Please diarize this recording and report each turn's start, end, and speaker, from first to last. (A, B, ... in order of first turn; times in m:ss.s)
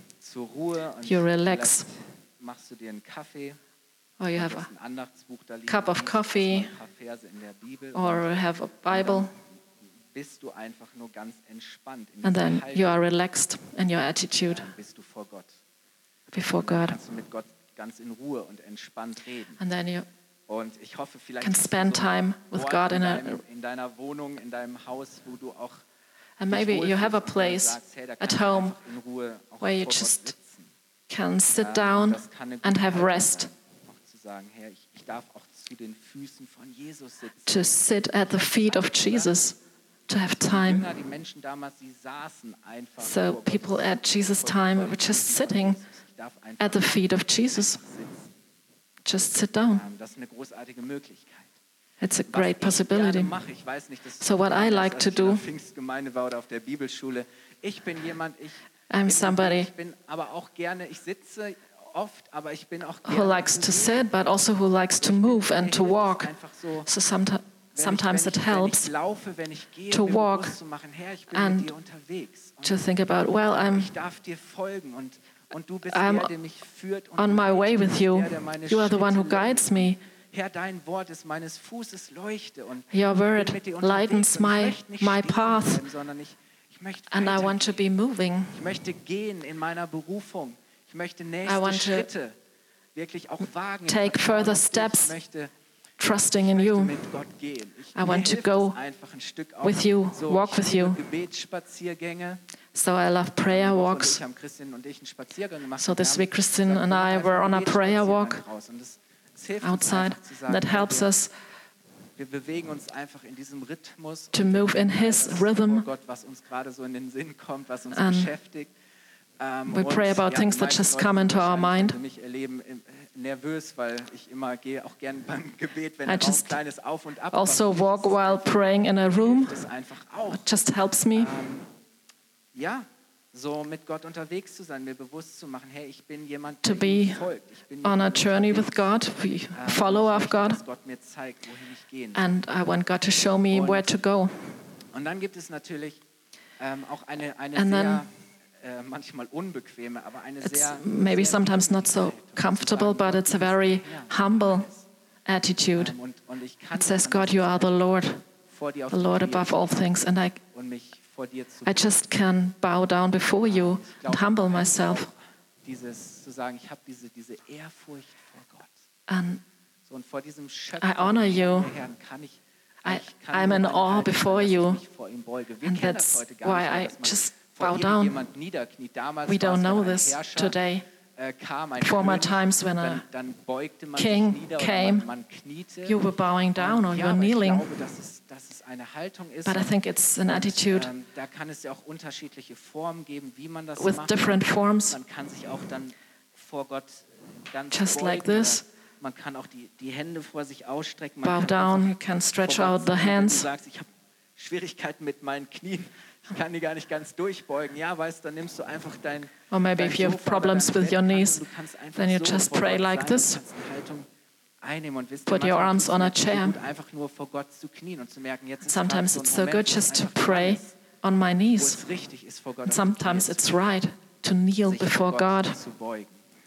0:00.2-0:03.6 A
0:01.0-0:01.9 B
0:04.2-0:04.7 B
0:04.4-0:08.3 A
0:05.7-0:06.7 B
0:07.9-0:09.3 B
0:08.9-0:09.3 A
0:10.1-0:13.0 A
0:12.2-0:14.7 B
0:14.5-0:15.5 A
0:16.3-0:17.0 B
0:16.5-0:19.6 A
0:19.6-0:20.1 B
0:20.5-0:25.8 A
0:21.4-0:23.4 B
0:26.4-0:28.8 B
0:26.5-0:30.7 A
0:29.6-0:30.3 B
0:31.1-0:33.5 B
0:31.6-0:37.7 A
0:37.5-0:39.6 B
0:38.4-0:39.4 A
0:40.1-0:40.9 B
0:40.4-0:48.3 A
0:43.0-0:45.8 B
0:46.6-0:47.8 B
0:49.0-0:49.8 B
0:49.7-0:51.5 A
0:52.0-0:53.3 B
0:52.3-1:04.1 A
0:54.2-0:55.4 B
0:58.9-0:59.7 B
1:03.0-1:06.3 B
1:05.0-1:06.9 A
1:06.9-1:08.9 B
1:07.7-1:12.9 A
1:09.9-1:10.6 B
1:11.3-1:11.7 B
1:12.6-1:13.9 B
1:13.4-1:27.8 A
1:15.9-1:16.3 B
1:17.2-1:20.0 B
1:22.9-1:25.8 B
1:27.1-1:28.6 B
1:28.5-1:32.4 A
1:31.4-1:32.1 B
1:33.0-1:35.5 A
1:33.9-1:35.2 B
1:36.0-1:37.0 B
1:36.3-1:42.4 A
1:38.0-1:38.8 B
1:39.6-1:41.0 B
1:42.7-1:44.2 B
1:43.5-1:51.1 A
1:45.8-1:48.4 B
1:49.6-1:51.3 B
1:52.2-1:58.7 A
1:54.3-1:55.9 B
1:57.9-1:58.3 B
1:59.4-2:10.5 A
1:59.7-2:02.0 B
2:06.1-2:06.6 B
2:07.3-2:09.6 B
2:10.3-2:11.3 B
2:11.1-2:11.7 A
2:12.5-2:18.9 A
2:16.6-2:17.2 B
2:17.8-2:20.6 B
2:19.5-2:22.3 A
2:22.2-2:24.5 B
2:23.5-2:23.9 A
2:24.9-2:26.0 A
2:26.6-2:34.9 A
2:27.6-2:28.0 B
2:30.4-2:34.7 B
2:35.3-2:36.0 B
2:35.8-2:37.8 A
2:36.7-2:38.2 B
2:38.5-2:40.0 A
2:38.9-2:40.4 B
2:40.5-2:41.9 A
2:41.6-2:45.1 B
2:43.4-2:48.7 A
2:49.1-2:49.4 B
2:49.9-3:00.6 A
2:50.8-2:51.7 B
2:52.8-2:54.8 B
2:55.6-2:58.2 B
2:59.3-3:00.8 B
3:01.2-3:06.0 A
3:01.8-3:03.0 B
3:04.0-3:05.1 B
3:05.9-3:07.7 B
3:06.6-3:09.7 A
3:09.5-3:10.9 B
3:10.3-3:34.1 A
3:13.8-3:15.0 B
3:17.7-3:18.6 B
3:21.2-3:23.5 B
3:29.5-3:31.4 B
3:32.0-3:33.4 B
3:34.6-3:40.8 A
3:35.3-3:36.6 B
3:38.6-3:41.8 B
3:41.6-3:43.8 A
3:42.6-3:45.6 B
3:44.6-3:46.2 A